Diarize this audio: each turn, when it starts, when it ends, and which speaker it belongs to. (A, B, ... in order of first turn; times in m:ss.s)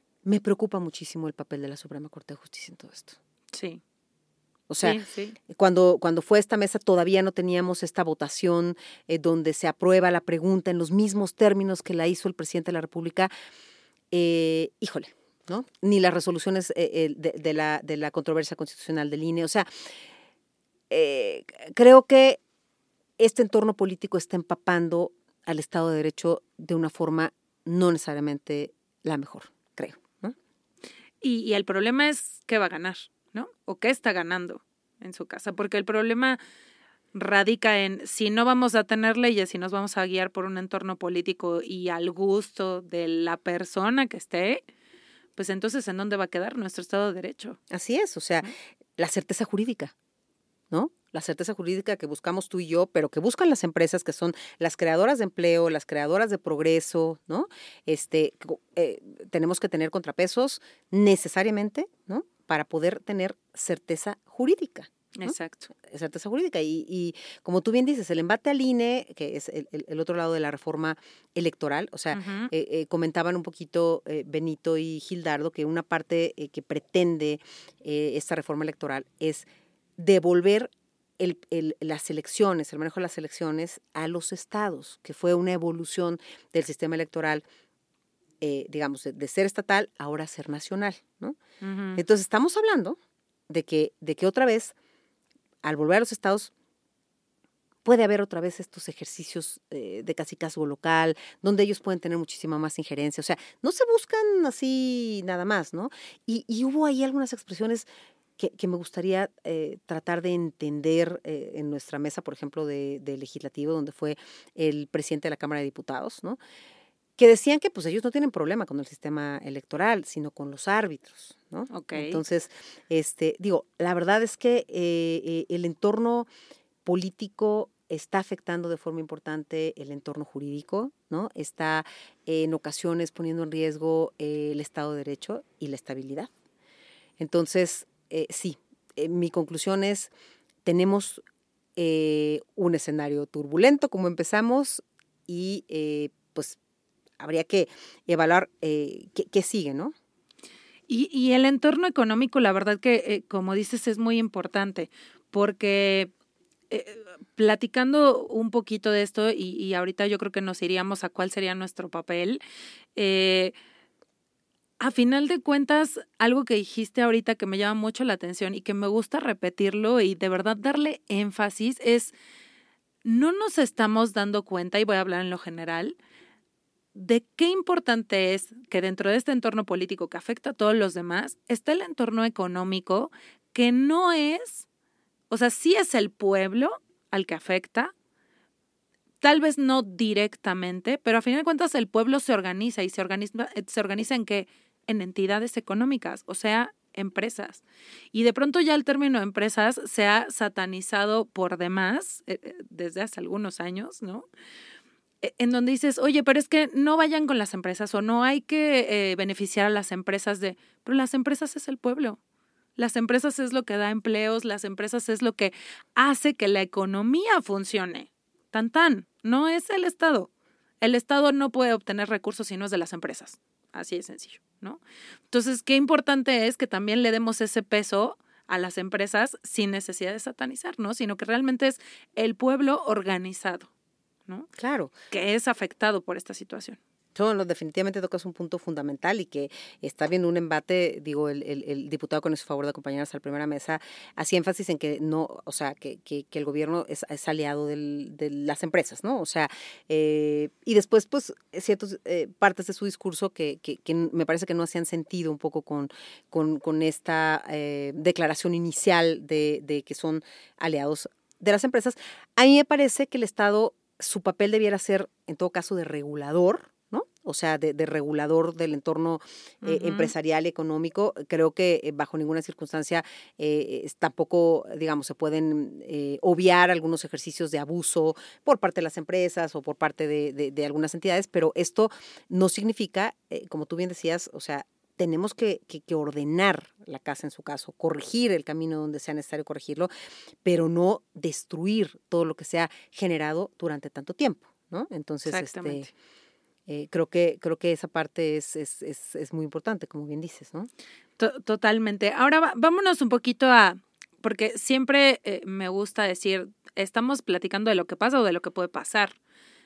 0:00.2-0:03.2 A
0:03.5-0:03.8 B
0:04.7-0:13.3 A
0:04.8-0:05.4 B
0:14.1-0:19.7 A
0:20.9-0:22.4 A
0:23.2-0:30.4 A
0:31.2-0:36.4 B
0:37.1-0:44.6 B
0:45.4-0:47.6 B
0:47.7-0:49.9 A
0:50.7-1:19.5 A
1:05.2-1:05.7 B
1:12.1-1:12.5 B
1:20.0-1:27.4 A
1:28.4-1:31.4 A
1:31.6-1:32.0 B
1:31.9-1:34.7 A
1:35.6-1:36.5 A
1:37.8-1:47.9 A
1:48.4-1:56.4 A
1:57.2-2:06.3 A
2:01.7-2:02.2 B
2:06.8-2:16.3 A
2:17.2-2:20.1 A
2:20.6-2:21.2 A
2:21.8-2:26.6 A
2:27.2-2:29.9 A
2:30.9-2:36.1 B
2:36.7-2:42.4 B
2:43.0-2:43.6 B
2:44.8-2:52.1 B
2:53.0-2:56.0 B
2:56.9-3:04.6 B
3:05.3-3:07.9 B
3:09.2-3:24.3 B
3:25.2-3:32.2 B
3:32.8-3:40.3 B
3:40.8-3:53.7 B
3:54.6-3:54.9 A
3:55.1-3:56.8 B
3:57.1-4:49.9 A
4:29.6-4:30.1 B
4:50.4-4:55.9 A
4:55.3-4:55.9 B
4:56.7-5:00.7 A
5:01.2-5:09.2 B